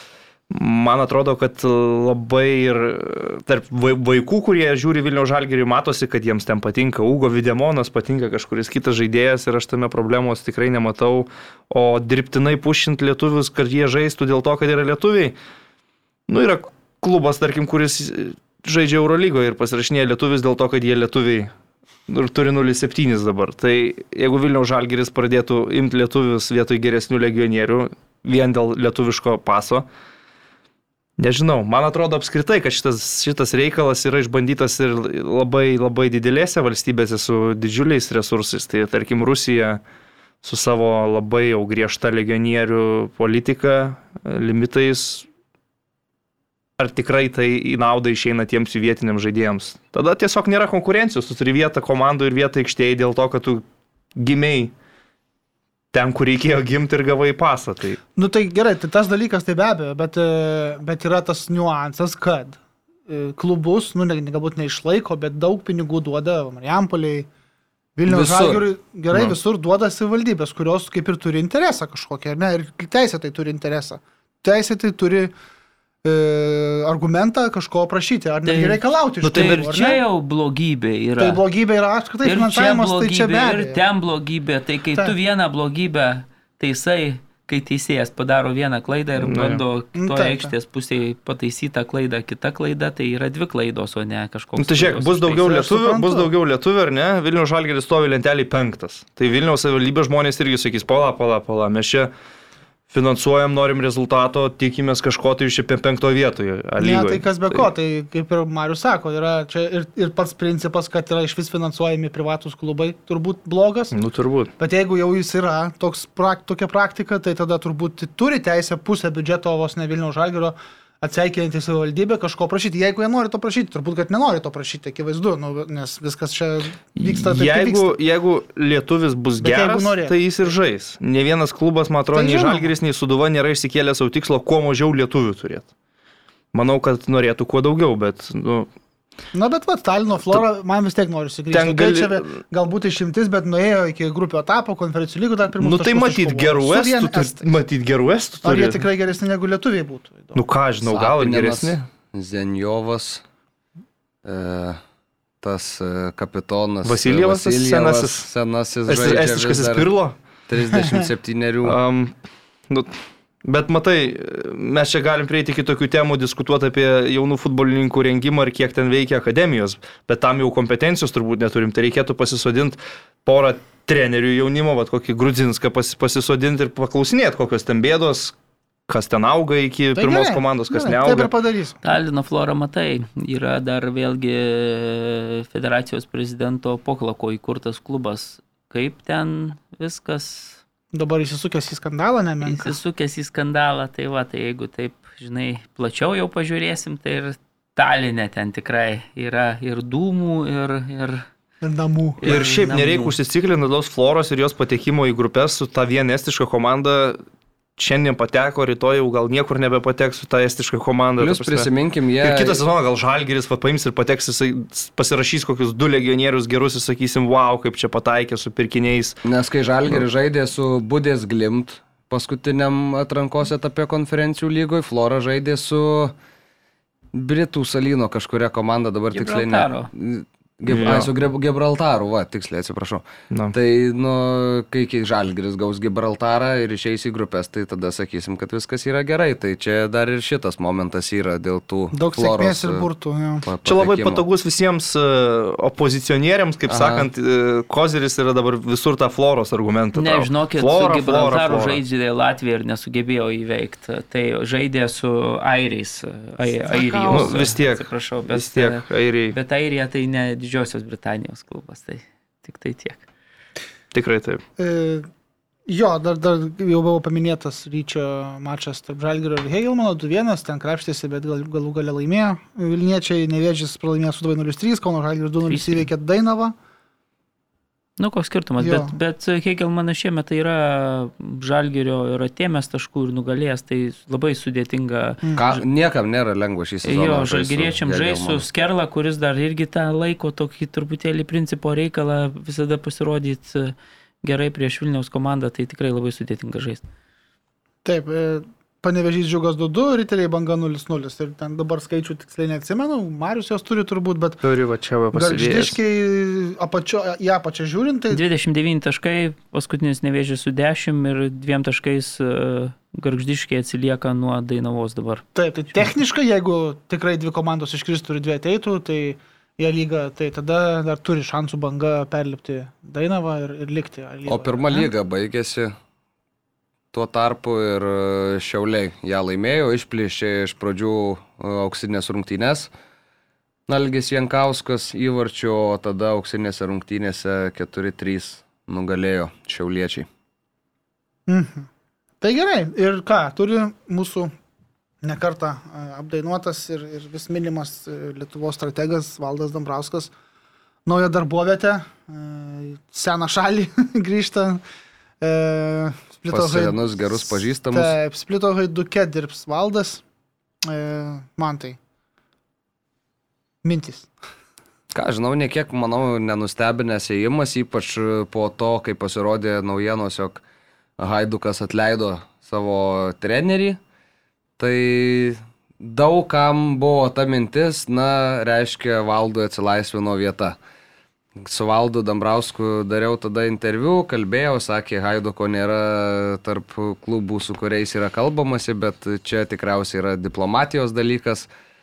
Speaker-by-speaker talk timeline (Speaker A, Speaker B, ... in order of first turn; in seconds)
Speaker A: 0.5-15.3, 16.3-21.5, 22.1-29.9, 31.2-39.8, 40.4-45.3, 46.8-53.6, 54.2-54.7, 55.9-58.0, 89.2-89.6, 94.6-102.1, 102.9-107.7, 113.9-114.5, 127.0-135.7, 136.5-138.7, 141.5-142.4, 145.6-148.8, 150.3-151.8, 156.8-158.3, 158.9-160.2, 161.6-162.1, 162.7-178.3, 178.9-181.3, 202.2-207.2, 207.8-211.7, 212.2-219.2, 230.7-231.1, 243.7-251.8, 257.1-259.4, 263.9-264.4, 304.4-305.8
Speaker B: 58.1-67.3, 68.0-75.3, 76.0-80.0, 81.2-83.8, 90.0-90.5, 95.4-96.3, 106.8-114.0, 114.6-128.0, 129.4-130.2, 132.1-132.7, 139.3-147.5, 148.4-150.4, 160.7-161.1, 180.0-181.8, 190.9-192.8, 201.6-202.5, 241.9-243.5, 256.5-257.4, 264.6-265.1, 265.7-276.6, 278.6-278.9, 297.8-304.4, 305.1-308.2, 315.4-324.9, 341.3-341.7, 342.2-344.3, 345.0-350.1, 350.9-354.6, 355.2-360.0, 360.6-361.8, 363.6-364.1
Speaker C: 68.1-68.7, 150.8-153.2, 154.2-154.8, 155.4-159.9, 160.5-161.8, 211.2-212.6, 219.2-226.1, 227.1-242.9, 243.4-244.2, 246.7-247.1, 285.4-288.4, 324.3-325.7, 326.9-332.7, 333.7-340.1, 356.3-357.9, 364.9-370.4, 371.0-373.8, 374.6-380.6, 381.4-391.5
Speaker D: 78.5-81.4, 82.2-95.6, 181.8-190.6, 192.4-201.3, 202.2-203.2, 229.1-229.9, 249.9-263.0, 275.5-275.9, 278.0-285.6, 286.8-296.8, 308.1-315.2